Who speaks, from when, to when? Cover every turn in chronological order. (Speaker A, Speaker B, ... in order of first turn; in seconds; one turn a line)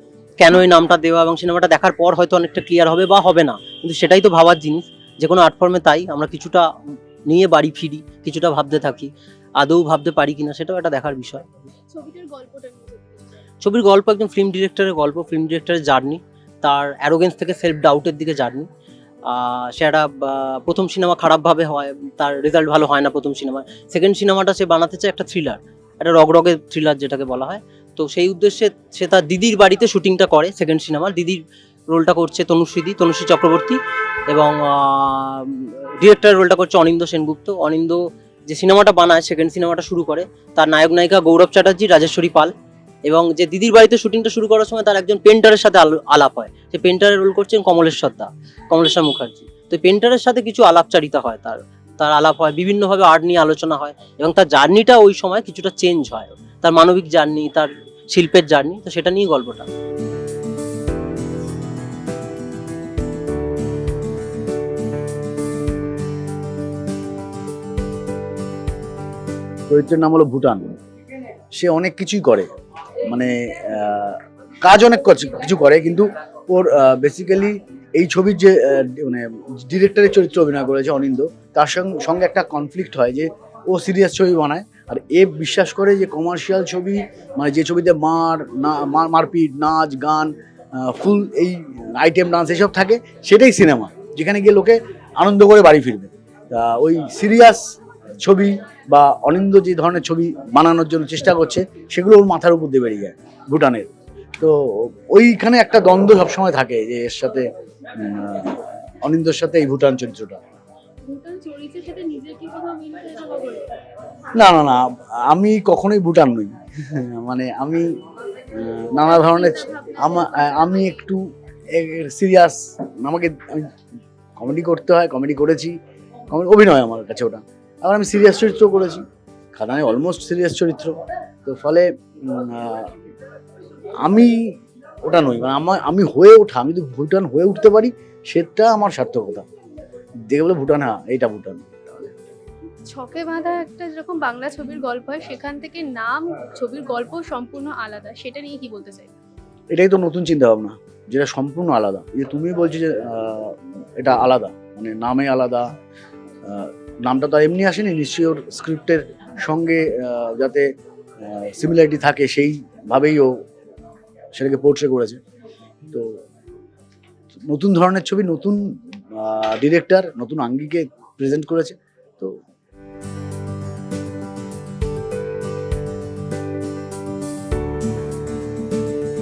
Speaker A: 0.4-6.7
Speaker A: 7.2-11.4
Speaker B: 11.9-13.2
Speaker A: 13.6-18.7
Speaker A: 19.2-59.7
Speaker C: 69.7-70.8
Speaker C: 71.5-72.5
Speaker C: 73.1-108.5
Speaker C: 109.0-110.4
Speaker B: 111.0-113.7
Speaker C: 114.3-117.9
Speaker C: 118.5-123.7
Speaker B: 119.1-121.0
Speaker C: 124.4-125.8
Speaker C: 126.3-132.9
Speaker C: 134.0-134.3
Speaker C: 135.0-139.4
Speaker C: 140.3-142.1
Speaker B: 142.9-149.1
Speaker C: 149.7-155.7
Speaker C: 156.4-160.7
Speaker C: 161.2-163.3
Speaker C: 164.3-165.2
Speaker C: 165.9-166.2
Speaker C: 167.5-172.3